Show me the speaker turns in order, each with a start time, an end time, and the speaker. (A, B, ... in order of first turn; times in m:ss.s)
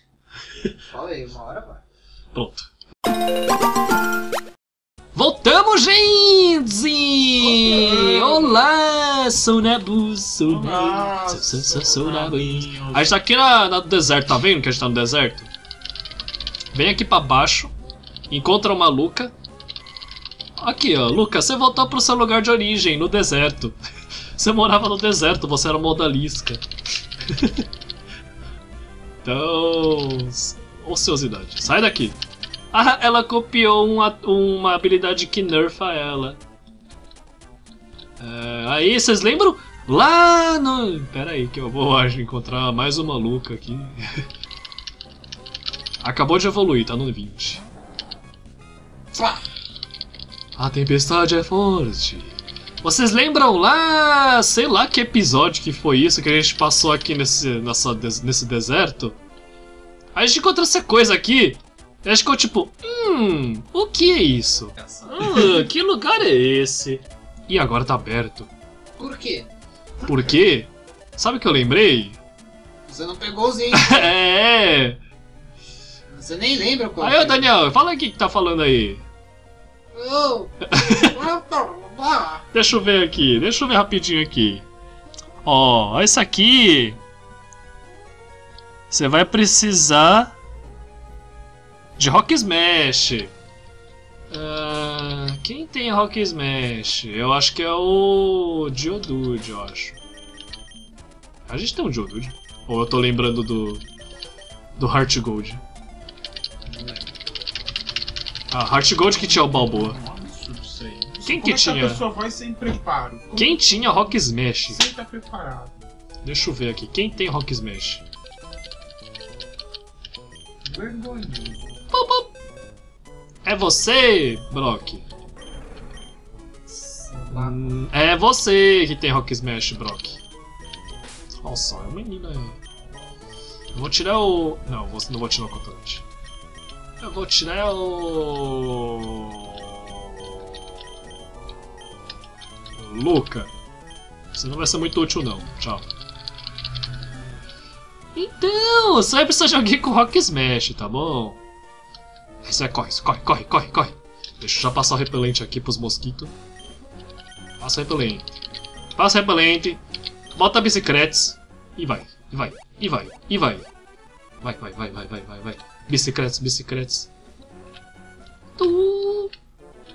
0:00.9-0:01.8 A
0:02.3-0:02.7 B
0:05.1-0:15.5 B
0:07.4-0:08.6 C
0:10.4-0:13.1 C
0:16.7-0:17.7 B
0:18.3-0:19.3 B
0:20.6-0:23.8 B
0:24.4-0:26.6 B
0:27.3-0:27.6 B
0:29.2-0:32.2 B
0:32.7-0:36.4 B
0:38.2-0:44.0 B
0:46.0-0:47.6 B
0:50.6-0:59.2 B
1:00.1-1:08.5 B
1:04.8-1:05.5 A
1:09.0-1:09.5 A
1:10.0-1:12.2 B
1:12.9-1:14.1 A
1:13.7-1:15.0 B
1:16.1-1:17.5 A
1:17.0-1:19.0 B
1:19.9-1:22.4 A
1:20.7-1:21.1 B
1:22.5-1:24.6 B
1:25.4-1:27.0 B
1:28.9-1:30.3 B
1:32.0-1:33.3 B
1:34.3-1:40.0 B
1:41.5-1:43.8 B
1:44.8-1:45.6 B
1:46.7-1:47.1 A
1:48.5-1:50.0 B
1:49.1-1:53.6 C
1:51.2-1:52.0 B
1:53.4-1:54.8 B
1:54.7-1:55.7 C
1:56.2-1:58.0 B
2:00.6-2:01.7 A
2:01.9-2:02.3 B
2:03.4-2:05.0 B
2:06.7-2:07.6 A
2:07.3-2:10.2 B
2:11.4-2:12.6 B
2:13.7-2:16.0 B
2:17.0-2:20.6 B
2:22.8-2:23.5 B
2:24.3-2:25.9 B
2:28.2-2:31.4 B
2:32.4-2:36.3 B
2:37.6-2:38.2 B
2:39.0-2:39.8 B
2:40.3-2:43.6 B
2:44.4-2:47.1 B
2:48.6-2:49.3 B